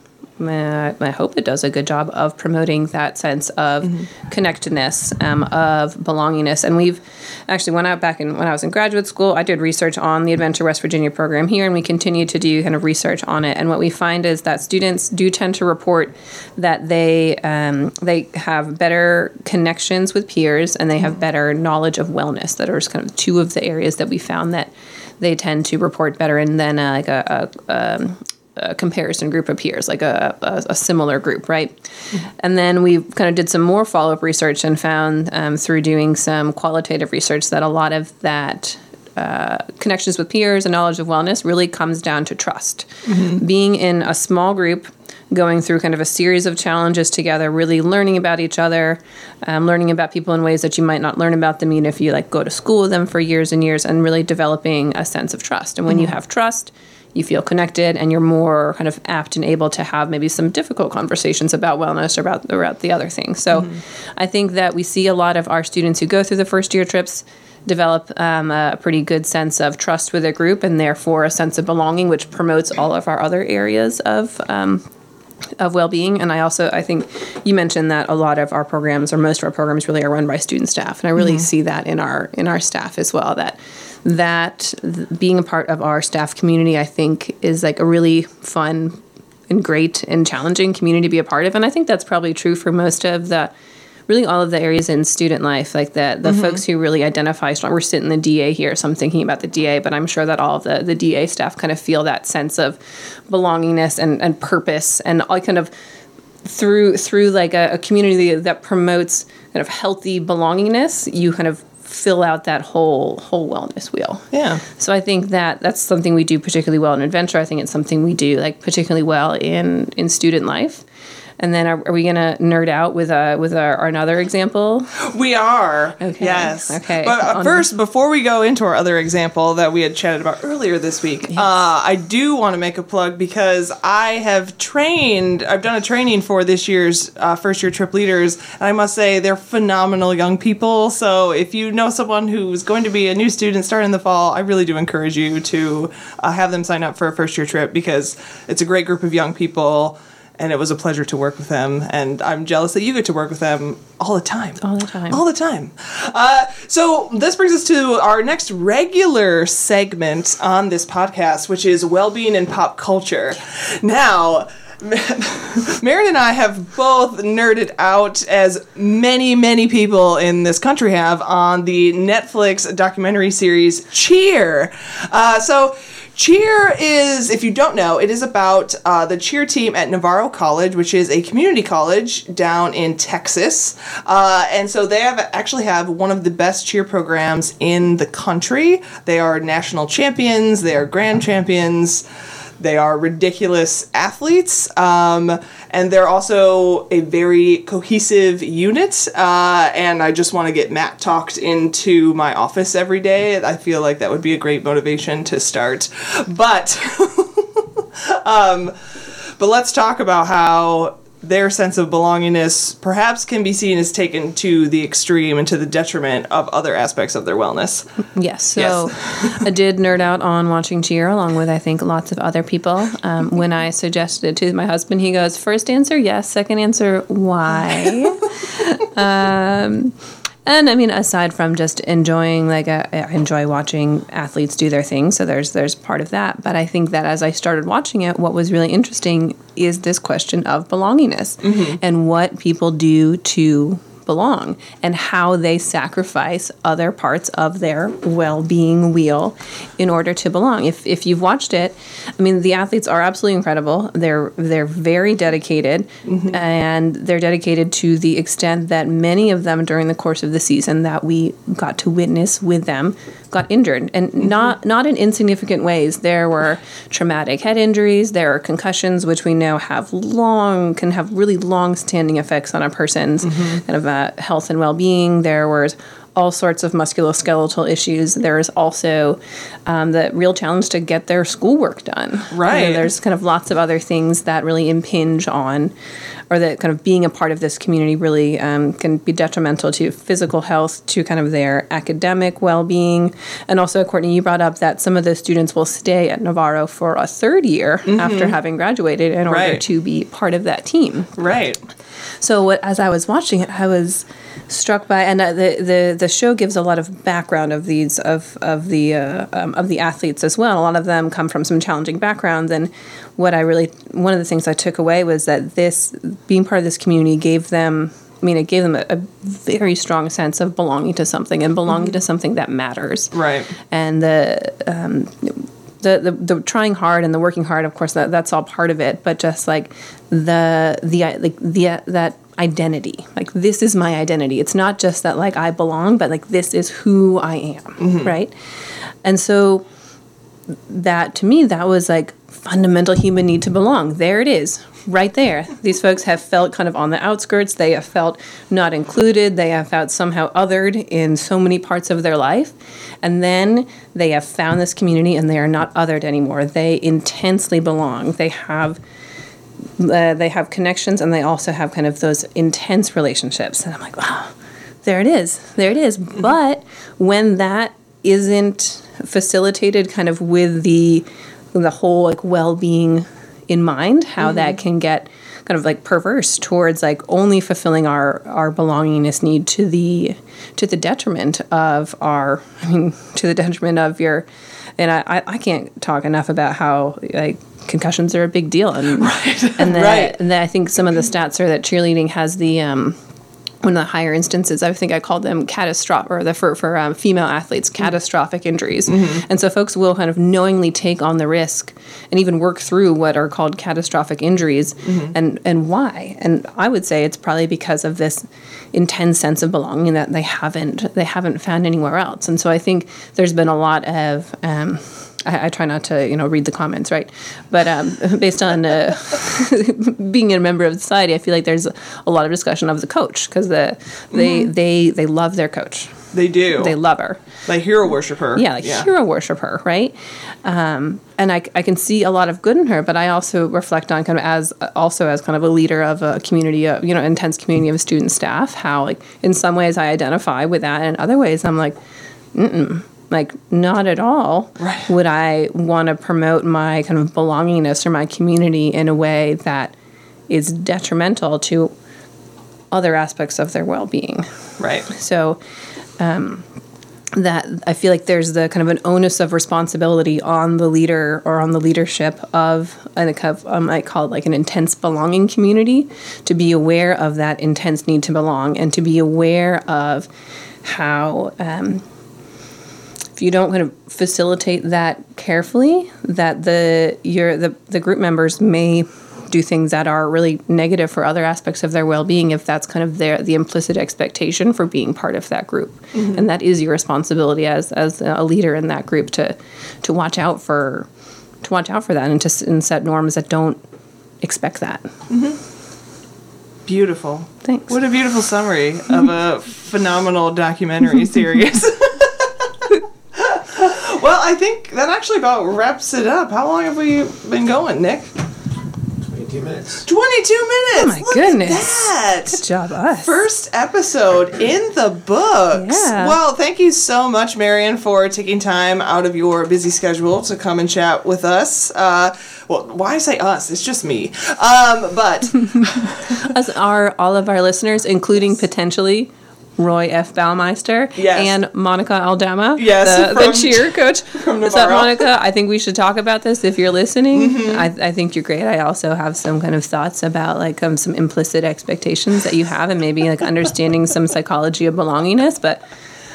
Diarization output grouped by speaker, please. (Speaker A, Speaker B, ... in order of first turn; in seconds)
Speaker A: 0.4-31.8, 32.4-74.8, 75.6-93.5, 94.1-105.7, 106.4-120.8, 121.4-125.0, 126.0-127.7, 154.6-155.2, 218.1-229.9, 230.4-285.7, 286.3-301.1, 302.2-323.1, 323.7-338.3, 339.0-339.6, 340.7-358.8, 359.8-364.3, 364.8-384.3, 384.8-393.0, 393.6-425.9, 426.5-427.2, 428.3-441.8, 442.3-449.7, 450.3-451.7, 452.7-454.2, 454.9-455.4, 456.0-456.4, 457.1-470.1, 470.6-471.8, 473.1-490.9, 491.4-493.6, 494.2-494.9, 497.4-497.7, 510.7-513.2, 515.5-516.2, 526.0-545.6
Speaker B: 43.1-43.4, 81.2-81.5, 96.2-96.6, 114.3-114.6, 125.0-192.0, 192.6-208.8, 209.4-217.9, 218.6-219.3, 241.4-241.8, 256.1-256.3, 282.3-282.9, 297.9-298.4, 299.3-299.6, 301.1-301.6, 323.1-323.5, 337.8-338.1, 388.9-390.2, 398.9-399.2, 404.8-405.1, 424.1-424.5, 426.1-426.8, 427.4-428.9, 444.6-444.9, 454.6-454.9, 495.1-495.4, 496.6-508.1, 509.2-512.4, 513.0-526.2, 531.0-531.3, 532.6-535.1, 537.1-537.7